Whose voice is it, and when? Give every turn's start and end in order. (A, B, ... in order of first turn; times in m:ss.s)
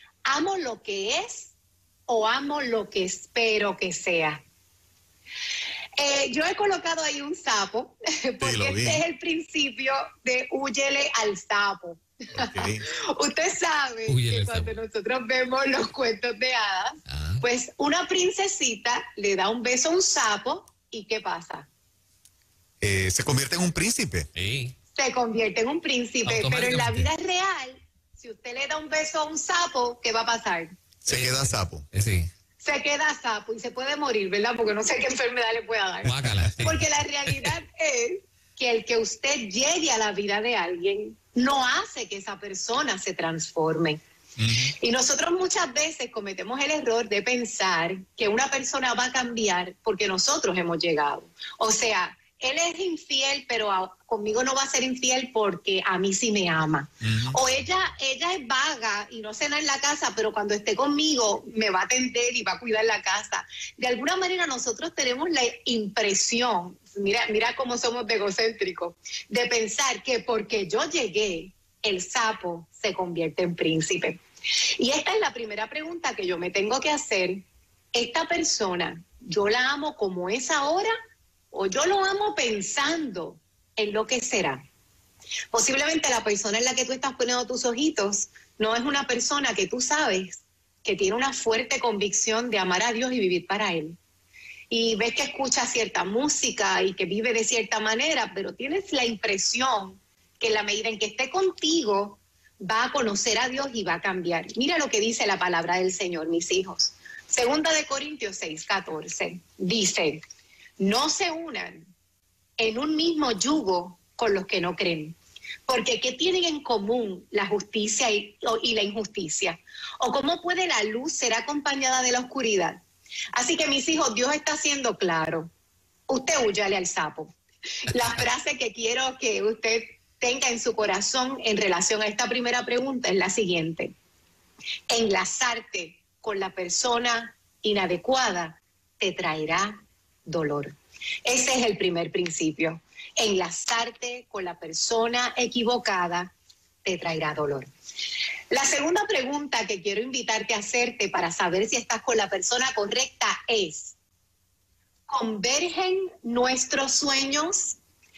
0:00.3-0:01.5 A
0:02.1-0:04.4 A
0:06.0-0:21.7 A
0:08.4-0:09.0 B
0:12.3-0:12.8 B
0:14.1-0:14.7 C
0:17.1-0:17.4 C
0:22.8-0:24.3 B
0:24.3-0:24.7 C
0:25.0-0:30.7 A
0:26.2-0:27.1 C
0:31.1-0:31.8 B
0:31.1-0:32.3 C
0:32.6-0:44.0 A
0:36.0-0:37.5 C
0:36.0-0:36.8 B
0:44.4-0:44.7 B
0:44.8-1:14.2 A
0:57.0-0:57.4 B
1:14.8-1:20.9 A
1:21.5-1:24.6 A
1:25.5-1:34.0 A
1:34.7-1:50.2 A
1:50.8-1:51.9 A
1:52.6-1:55.2 A
1:55.7-2:02.8 A
2:03.3-2:05.5 A
2:06.1-2:13.9 A
2:14.9-2:20.7 A
2:21.2-2:26.3 A
2:26.8-2:27.7 A
2:28.5-2:33.9 A
2:35.1-2:37.8 A